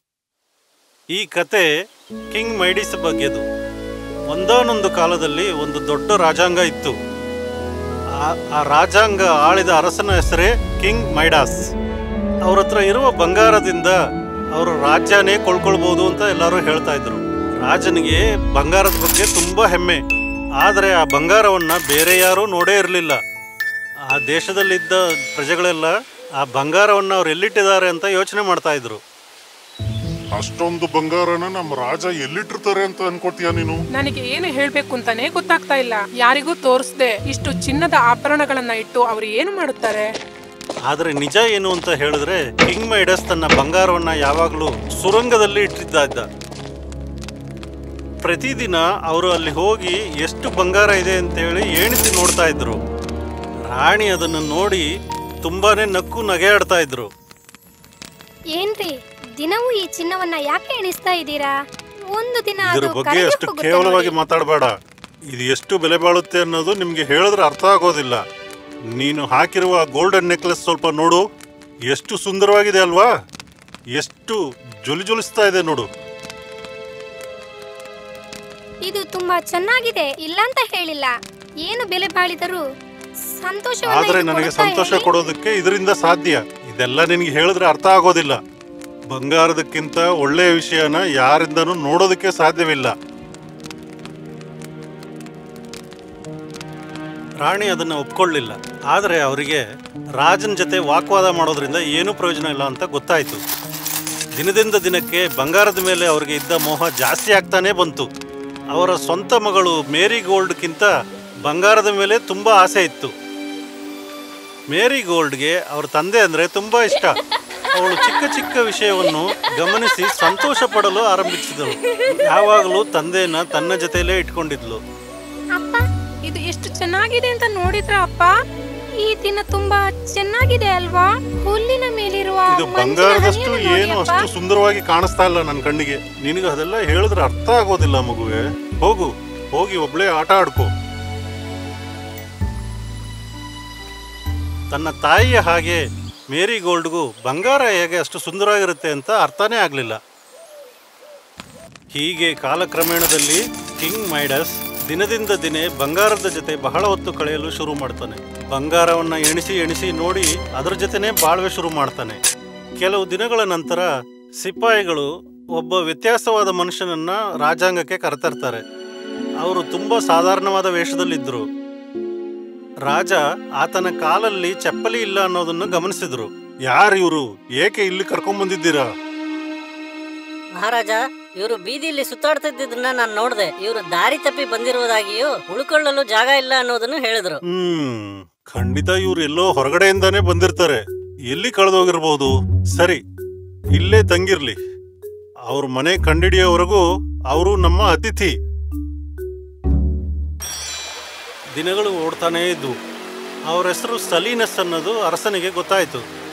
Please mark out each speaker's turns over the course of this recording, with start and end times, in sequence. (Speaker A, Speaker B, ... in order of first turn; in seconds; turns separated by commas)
Speaker A: 1.1-1.7, Speaker A: 2.3-3.4, Speaker A: 4.3-6.9, Speaker A: 8.2-11.6, Speaker A: 12.4-13.9, Speaker A: 14.5-20.0, Speaker A: 20.6-23.2, Speaker A: 24.1-29.0, Speaker B: 30.3-33.8, Speaker C: 33.9-40.1, Speaker A: 40.9-46.3, Speaker A: 48.2-52.8, Speaker A: 53.7-54.9, Speaker A: 55.4-57.1, Speaker D: 58.5-61.5, Speaker D: 62.1-64.1, Speaker A: 62.6-64.7, Speaker A: 65.3-68.2, Speaker A: 69.0-71.2, Speaker A: 71.9-73.1, Speaker A: 74.0-75.9, Speaker D: 78.8-81.1, Speaker D: 81.6-82.6, Speaker D: 83.4-85.1, Speaker A: 83.9-88.4, Speaker A: 89.1-92.9, Speaker A: 97.4-99.6, Speaker A: 100.2-103.4, Speaker A: 104.3-108.1, Speaker A: 108.7-110.9, Speaker A: 111.5-113.1, Speaker A: 114.7-117.2, Speaker A: 117.7-124.8, Speaker D: 125.5-125.8, Speaker C: 126.3-128.3, Speaker D: 129.0-134.2, Speaker A: 132.5-140.7, Speaker A: 144.7-150.0, Speaker A: 151.9-162.2, Speaker A: 162.8-163.9, Speaker A: 164.4-168.6, Speaker A: 169.4-171.4, Speaker A: 172.8-178.9, Speaker E: 180.5-187.4, Speaker A: 187.5-193.0, Speaker A: 193.8-194.6, Speaker A: 195.5-198.3, Speaker A: 201.5-202.7, Speaker A: 203.5-206.0